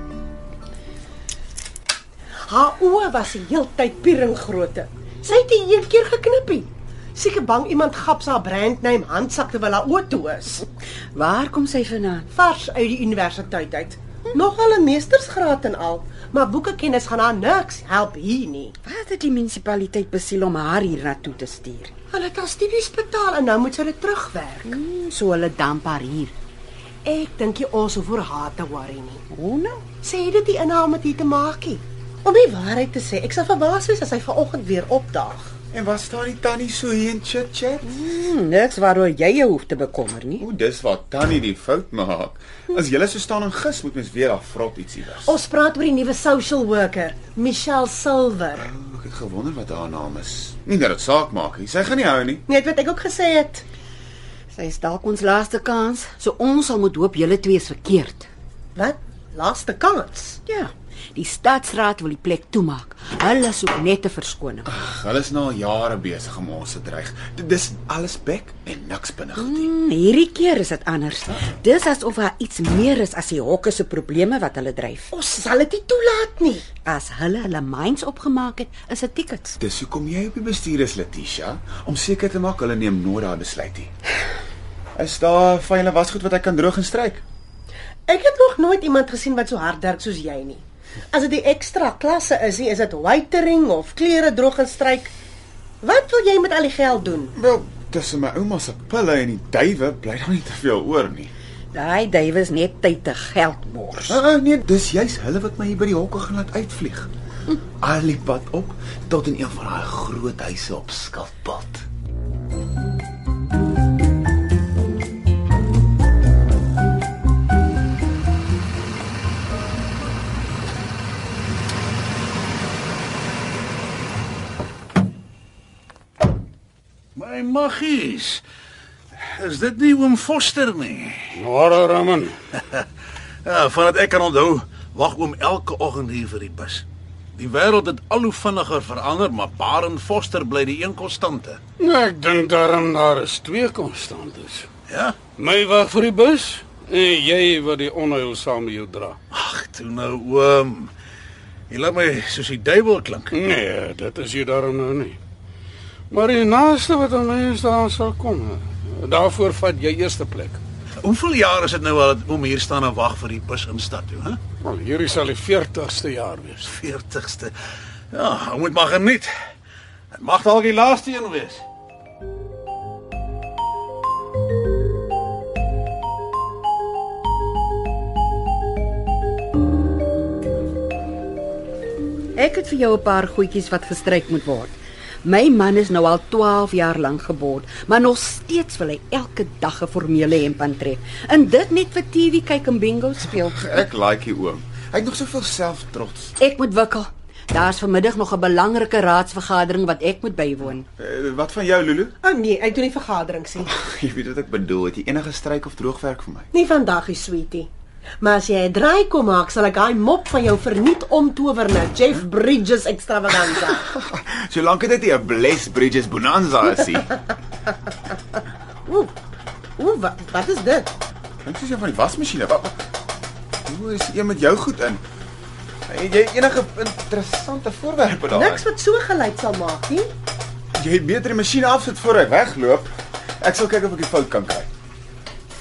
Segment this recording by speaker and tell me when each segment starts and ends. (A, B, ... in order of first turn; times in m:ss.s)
0:02.5-0:10.6 A
0:11.2-0:12.3 B
0:12.3-0:18.8 A
0:18.9-0:21.9 B
0:22.1-0:24.8 A
0:24.7-0:26.3 B
0:27.0-0:29.2 A
0:29.3-0:29.8 B
0:30.0-0:35.5 A
0:35.7-0:37.9 C
0:37.9-0:40.4 B
0:40.4-0:45.3 C
0:45.2-0:48.7 A
0:48.6-0:52.4 C
0:52.5-0:53.6 A
0:54.5-0:58.3 B
0:58.8-1:00.4 A
1:00.5-1:04.7 B
1:04.6-1:09.7 C
1:09.4-1:15.1 B
1:15.1-1:16.7 A
1:16.8-1:19.6 B
1:19.6-1:23.9 C
1:25.0-1:27.2 C
1:28.1-1:35.1 A
1:35.8-1:37.3 A
1:37.4-1:41.3 C
1:41.7-1:44.2 B
1:44.1-1:47.1 C
1:47.8-1:51.8 C
2:07.2-2:08.4 D
2:09.2-2:11.4 D
2:11.4-2:12.4 E
2:12.6-2:12.8 D
2:13.4-2:21.6 D
2:21.8-2:24.7 E
2:24.9-2:25.2 D
2:25.4-2:29.2 E
2:29.3-2:30.9 D
2:31.7-2:33.4 D
2:33.3-2:35.2 E
2:36.1-2:40.6 E
2:41.0-2:44.4 D
2:44.6-2:46.6 E
2:46.6-2:47.5 D
2:48.1-2:49.3 D
2:50.1-2:51.6 D
3:02.4-3:13.8 B
3:13.6-3:16.3 C
3:16.4-3:20.8 B
3:21.0-3:22.2 C
3:22.2-3:23.7 A
3:23.7-3:26.5 C
3:26.5-3:27.7 A
3:28.2-3:33.8 A
3:33.8-3:37.1 C
3:38.9-3:39.1 A
3:39.8-3:40.9 A
3:41.4-3:42.8 C
3:43.7-3:45.0 C
3:45.9-3:48.6 C
3:48.3-3:50.1 A
3:50.8-3:54.7 C